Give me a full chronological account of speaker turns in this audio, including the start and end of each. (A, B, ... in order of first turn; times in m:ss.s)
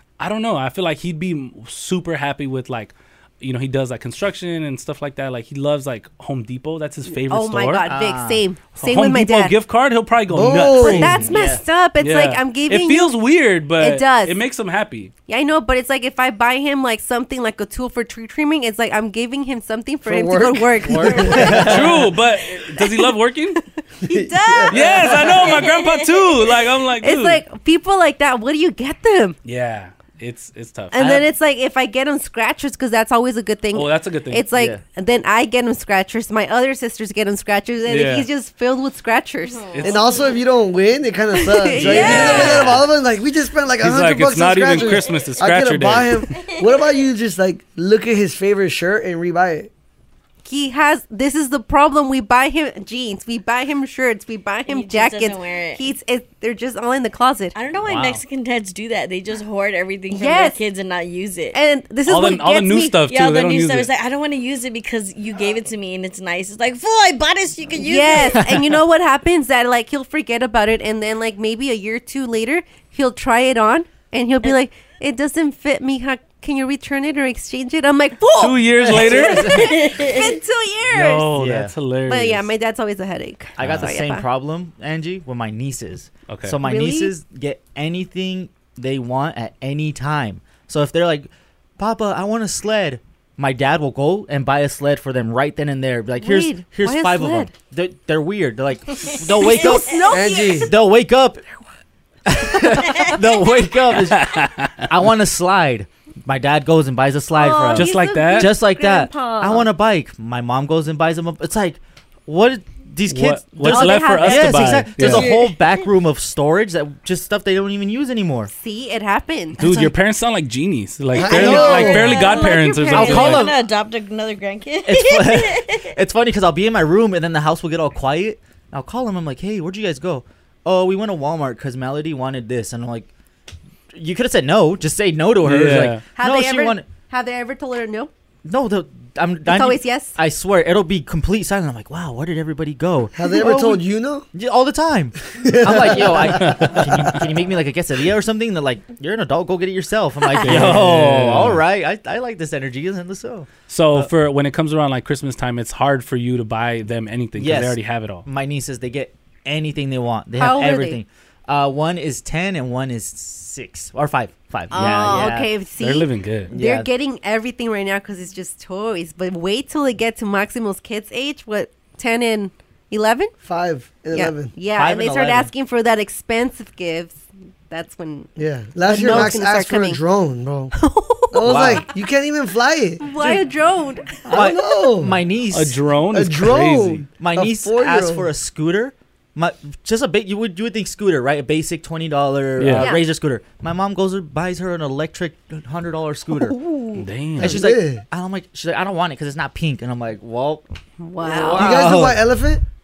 0:00.2-0:07.8 A
0:07.0-0:09.5 B
0:07.8-0:08.4 C
0:08.8-0:11.2 A
0:10.3-0:11.3 D
0:10.8-0:13.1 B
0:11.2-0:11.6 C
0:12.0-0:15.1 A
0:13.8-0:14.4 B
0:15.3-0:21.7 B
0:20.0-0:21.9 D
0:20.8-0:22.0 C
0:21.1-0:21.6 E
0:21.6-0:23.6 A
0:24.0-0:24.8 D
0:24.1-0:25.5 B
0:24.7-0:27.4 A
0:25.4-0:26.1 E
0:27.0-0:29.4 B
0:29.4-0:31.3 A
0:30.9-0:39.7 B
0:33.7-0:34.5 A
0:34.5-0:34.8 C
0:37.9-0:38.3 A
0:39.4-0:40.3 E
0:39.7-0:40.0 A
0:39.8-0:49.7 D
0:41.4-0:42.7 B
0:41.7-0:42.8 A
0:43.8-0:46.2 A
0:46.4-0:47.0 E
0:50.4-0:57.5 B
0:54.7-0:55.9 E
0:57.5-1:01.6 E
0:57.8-0:58.2 A
1:00.1-1:00.6 B
1:01.5-1:03.0 B
1:02.0-1:03.9 A
1:03.1-1:08.4 E
1:07.8-1:21.3 B
1:08.3-1:08.7 C
1:18.4-1:19.7 A
1:18.9-1:19.7 C
1:19.5-1:20.4 E
1:20.9-1:22.5 A
1:21.3-1:21.7 C
1:22.1-1:24.3 B
1:23.6-1:40.1 C
1:23.6-1:23.9 A
1:26.3-1:26.6 A
1:26.6-1:27.1 B
1:36.2-1:37.5 B
1:39.1-1:39.8 E
1:39.4-1:40.7 B
1:40.1-1:40.8 D
1:40.6-1:41.4 C
1:42.2-1:58.5 C
1:43.9-1:44.8 A
1:47.3-1:49.7 B
1:47.7-1:48.6 A
1:53.1-1:55.3 A
1:53.6-1:54.9 B
1:55.0-1:55.9 E
1:58.5-1:59.9 B
1:59.6-2:03.5 A
2:01.1-2:02.1 D
2:01.3-2:01.9 C
2:01.3-2:03.5 B
2:01.4-2:06.0 E
2:02.9-2:03.6 C
2:04.8-2:13.1 C
2:13.9-2:16.8 C
2:15.4-2:16.0 A
2:16.1-2:18.1 B
2:18.4-2:34.1 C
2:19.4-2:20.1 B
2:23.1-2:24.3 D
2:25.3-2:26.7 D
2:26.4-2:27.2 A
2:30.4-2:31.6 A
2:33.7-2:38.2 A
2:37.4-2:45.5 C
2:40.4-2:41.0 B
2:44.7-2:53.3 B
2:44.8-2:46.5 A
2:46.5-2:46.9 C
2:53.4-2:54.5 D
2:54.1-2:58.3 B
2:54.7-2:55.5 C
2:58.4-3:00.7 D
2:58.8-3:00.0 B
3:00.7-3:01.8 B
3:01.3-3:03.0 D
3:01.4-3:01.9 C
3:03.0-3:04.4 B
3:04.2-3:05.2 D
3:04.3-3:05.8 C
3:05.5-3:07.1 A
3:06.1-3:08.3 D
3:07.2-3:16.6 C
3:12.6-3:12.9 A
3:12.7-3:13.0 B
3:16.4-3:17.0 B
3:17.0-3:17.6 A
3:17.4-3:20.6 C
3:17.4-3:18.0 D
3:21.0-3:21.7 B
3:21.2-3:22.3 C
3:21.5-3:22.6 D